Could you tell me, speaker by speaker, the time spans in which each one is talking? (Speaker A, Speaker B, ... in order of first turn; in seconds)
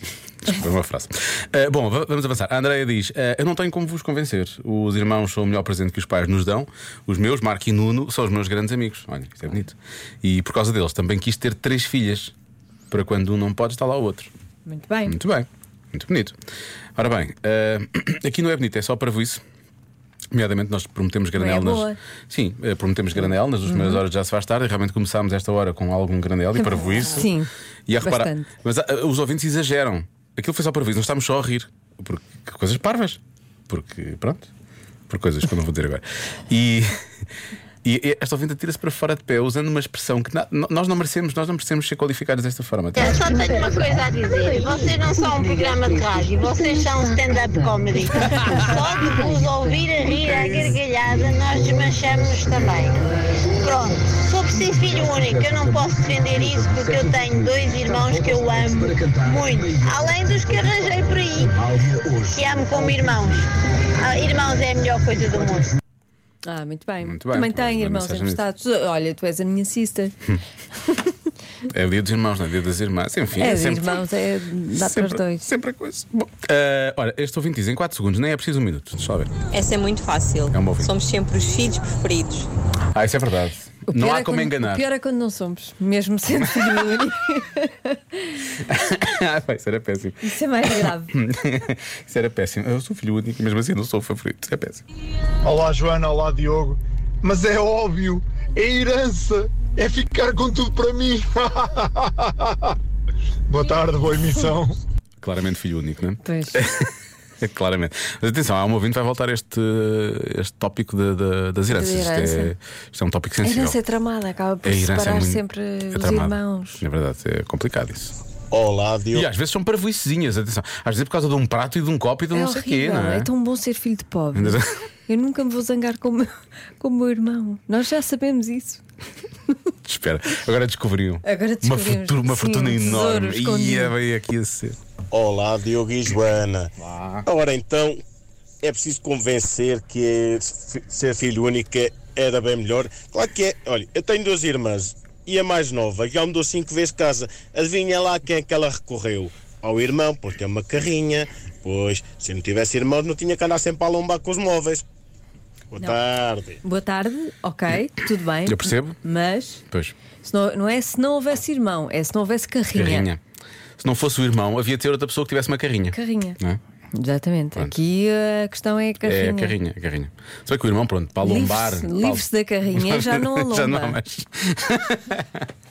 Speaker A: 0.4-12.3, 12.9-14.3, 15.1-16.3, 16.9-19.4, 20.3-27.3, 27.9-34.5, 35.1-36.9, 37.8-43.2, 67.0-68.4, 71.7-74.0, 74.8-79.3, 80.5-80.9, 82.9-84.8, 86.3-87.0, 88.6-94.8, 105.2-106.9, 107.4-113.8, 114.6-118.1, 119.1-123.3, 124.3-124.7, 129.8-134.8, 158.5-158.9, 159.7-159.9, 162.7-163.2, 163.8-166.6, 169.0-175.5
Speaker B: 14.7-15.2, 21.4-22.0, 23.2-24.0, 26.6-28.5, 66.4-70.2, 73.3-75.5, 83.9-88.4, 90.2-91.1, 106.2-106.6, 111.7-112.5, 113.4-116.8, 122.3-128.8, 131.2-133.9, 156.6-159.6, 160.2-163.1, 165.9-166.4, 166.9-169.5, 171.2-174.0
Speaker C: 43.0-53.0, 53.6-65.7
Speaker D: 79.5-82.5
Speaker E: 95.4-102.8, 103.5-104.8
Speaker F: 118.5-119.3, 135.1-136.7, 137.2-138.0, 138.6-154.8, 155.7-156.6